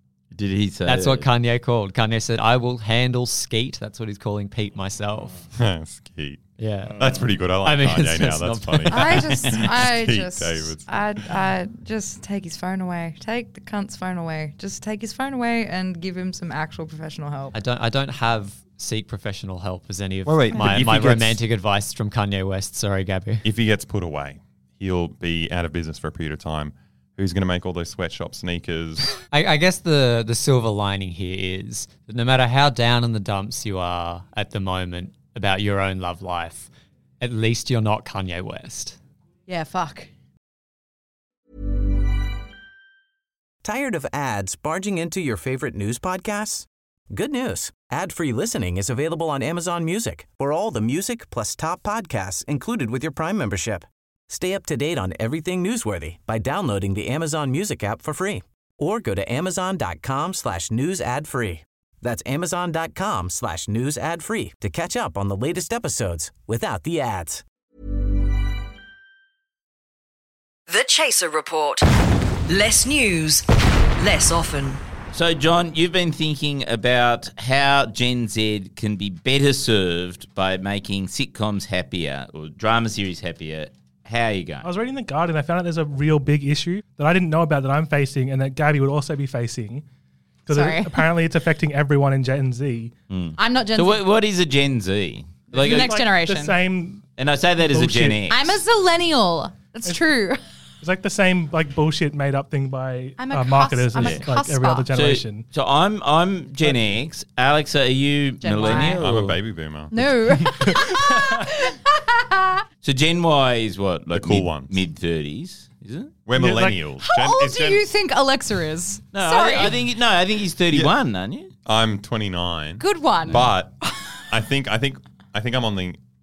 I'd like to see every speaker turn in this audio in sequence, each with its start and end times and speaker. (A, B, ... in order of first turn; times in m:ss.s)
0:00.3-0:01.3 A
0:00.8-0:05.4 B
0:05.6-0:11.1 C
0:06.6-0:09.3 B
0:08.9-0:17.5 D
0:17.5-0:23.4 B
0:20.3-0:21.4 C
0:23.4-0:29.1 C
0:29.3-0:39.0 B
0:39.5-0:40.1 D
0:43.6-1:07.4 E
1:10.7-1:11.8 F
1:12.5-1:13.4 F
1:14.0-1:14.8 F
1:15.1-1:24.7 A
1:24.6-1:29.8 G
1:30.4-1:32.9 G
1:30.5-1:31.2 D
1:33.1-1:35.9 A
1:33.4-1:34.0 D
1:35.5-1:37.0 G
1:35.6-1:36.6 D
1:37.2-1:38.6 A
1:37.6-1:38.2 G
1:38.2-1:40.4 D
1:40.8-1:45.4 G
1:43.2-1:44.9 D
1:43.9-1:44.3 A
1:44.9-1:49.4 A
1:48.4-1:49.0 D
1:48.6-1:50.2 C
1:49.9-1:52.6 D
1:50.4-1:51.2 G
1:52.8-1:56.1 A
1:54.1-1:54.8 C
1:56.2-1:57.9 C
1:56.3-1:56.8 G
1:57.0-1:59.8 D
1:59.1-2:01.5 A
2:01.6-2:03.7 C
2:02.8-2:04.1 D
2:04.3-2:06.0 C